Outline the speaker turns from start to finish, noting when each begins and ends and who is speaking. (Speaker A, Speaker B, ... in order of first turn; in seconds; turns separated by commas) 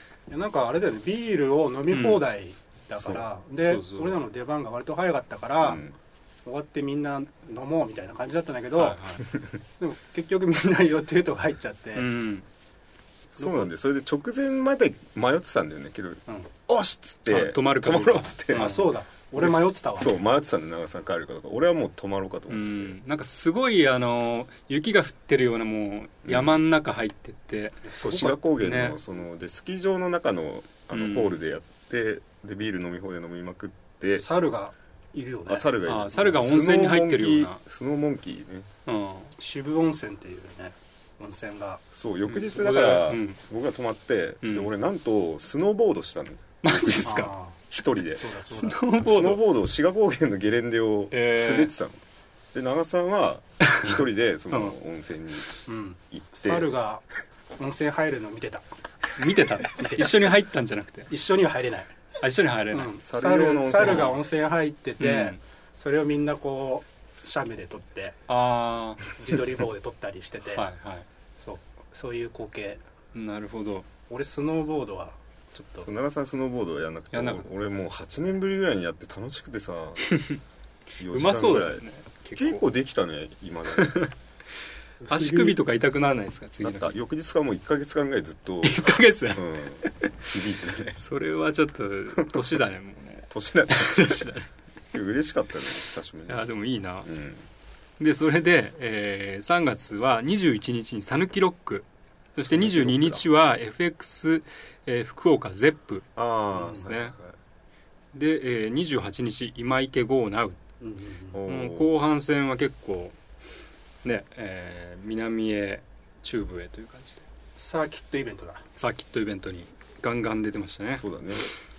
Speaker A: 0.3-5.8, Speaker B: 1.9-2.2, Speaker C: 3.0-3.2, Speaker B: 3.6-4.2, Speaker C: 5.6-6.0, Speaker A: 6.4-9.0, Speaker B: 8.8-9.2, Speaker A: 9.8-12.1, Speaker B: 11.9-12.4, Speaker C: 13.3-18.8, Speaker A: 13.4-13.7, Speaker B: 17.3-18.9, Speaker A: 18.5-20.1, Speaker C: 19.4-23.0, Speaker B: 22.5-29.0, Speaker C: 26.2-26.6, Speaker A: 27.9-28.3, Speaker C: 28.0-34.2, Speaker B: 30.9-31.4, Speaker A: 34.2-35.7, Speaker C: 35.5-38.7, Speaker B: 35.8-37.6, Speaker B: 38.9-39.3, Speaker A: 39.4-41.8, Speaker C: 41.9-48.4, Speaker B: 42.3-43.4, Speaker B: 44.4-44.7, Speaker B: 46.6-47.3, Speaker A: 47.0-47.6, Speaker A: 48.2-48.8, Speaker B: 48.5-49.4, Speaker C: 48.9-52.0, Speaker B: 51.1-51.7, Speaker C: 52.5-55.5, Speaker B: 53.6-53.9, Speaker A: 55.7-57.0, Speaker C: 56.1-56.7, Speaker A: 57.6-58.6, Speaker B: 59.2-61.1, Speaker A: 59.7-60.3, Speaker A: 61.1-61.9, Speaker B: 62.2-62.9, Speaker A: 62.7-68.2, Speaker C: 63.0-64.2, Speaker B: 63.8-64.1, Speaker B: 65.0-65.4, Speaker B: 68.3-69.0, Speaker A: 69.1-70.7, Speaker B: 70.5-71.0, Speaker A: 71.4-72.8, Speaker B: 73.1-73.9, Speaker A: 74.1-75.9, Speaker C: 75.8-80.1, Speaker B: 77.1-77.5, Speaker B: 80.1-80.4, Speaker C: 81.0-84.0, Speaker B: 81.1-82.6, Speaker B: 83.8-84.1, Speaker A: 85.0-85.5, Speaker B: 85.1-87.0, Speaker C: 86.6-91.0, Speaker B: 88.6-90.0, Speaker B: 90.9-94.5, Speaker C: 93.3-94.3, Speaker C: 94.9-96.5, Speaker B: 96.3-97.1, Speaker C: 97.0-97.5, Speaker B: 98.0-106.1, Speaker C: 102.3-103.2, Speaker C: 106.2-107.3, Speaker B: 106.8-107.1, Speaker B: 108.1-110.6, Speaker A: 110.8-111.4, Speaker C: 111.3-112.0, Speaker B: 111.5-113.2, Speaker B: 114.0-117.2, Speaker A: 117.6-118.6, Speaker B: 118.8-121.0, Speaker C: 120.9-121.5